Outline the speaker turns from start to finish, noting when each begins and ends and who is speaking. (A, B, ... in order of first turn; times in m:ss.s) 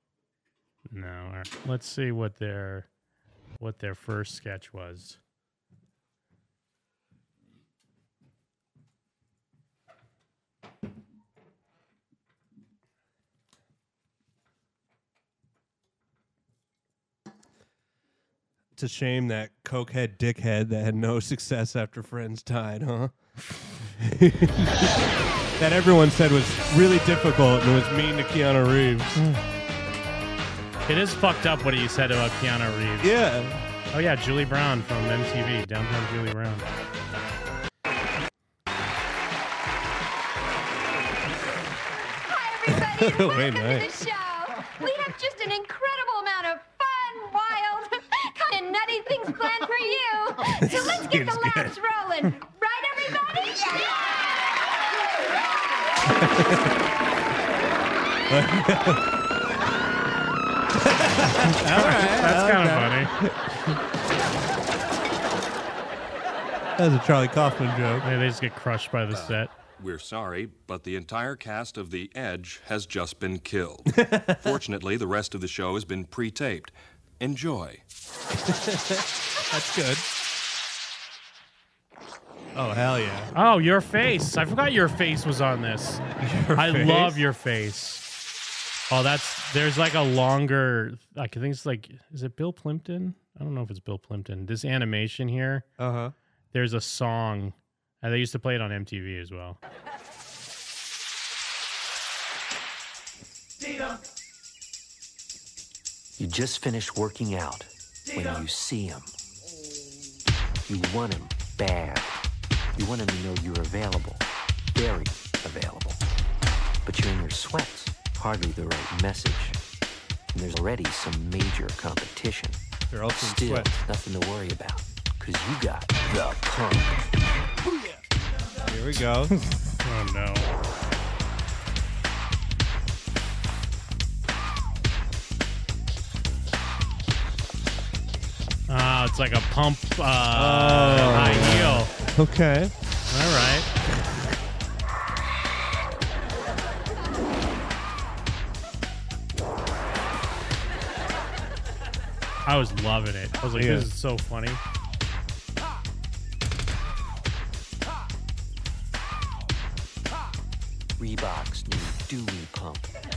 0:00.9-0:02.9 A
0:03.6-0:05.2 A
0:18.8-0:23.1 B
0:23.9-0:25.0 B
0:25.6-0:29.2 B
0:30.9-0:33.1 A
0:33.0-0:33.6 B
0:33.9-0:36.7 A
0:42.3-0:54.2 C
0:42.7-0:44.0 B
0:50.5-0:51.8 B
0:56.0-0:56.7 B
0:58.3-0:59.1 B
1:00.7-1:03.5 B
1:01.4-1:03.1 A
1:06.8-1:08.0 B
1:08.0-1:09.5 A
1:09.1-1:17.8 D
1:13.9-1:14.6 B
1:18.4-1:20.0 B
1:22.6-1:23.3 B
1:23.3-1:26.0 A
1:26.2-1:27.2 B
1:26.6-1:28.0 A
1:28.9-1:35.7 A
1:35.8-1:36.1 B
1:36.5-1:39.6 A
1:46.2-1:49.1 E
1:50.7-1:52.2 E
1:52.8-1:56.0 E
1:56.8-1:59.6 E
2:00.3-2:02.6 E
2:02.9-2:03.7 B
2:03.2-2:07.0 E
2:08.6-2:09.3 B
2:09.4-2:10.5 A
2:18.7-2:21.9 A
2:20.3-2:22.7 B
2:23.1-2:23.7 A
2:32.5-2:34.6 A
2:33.6-2:33.9 B
2:41.0-2:42.9 E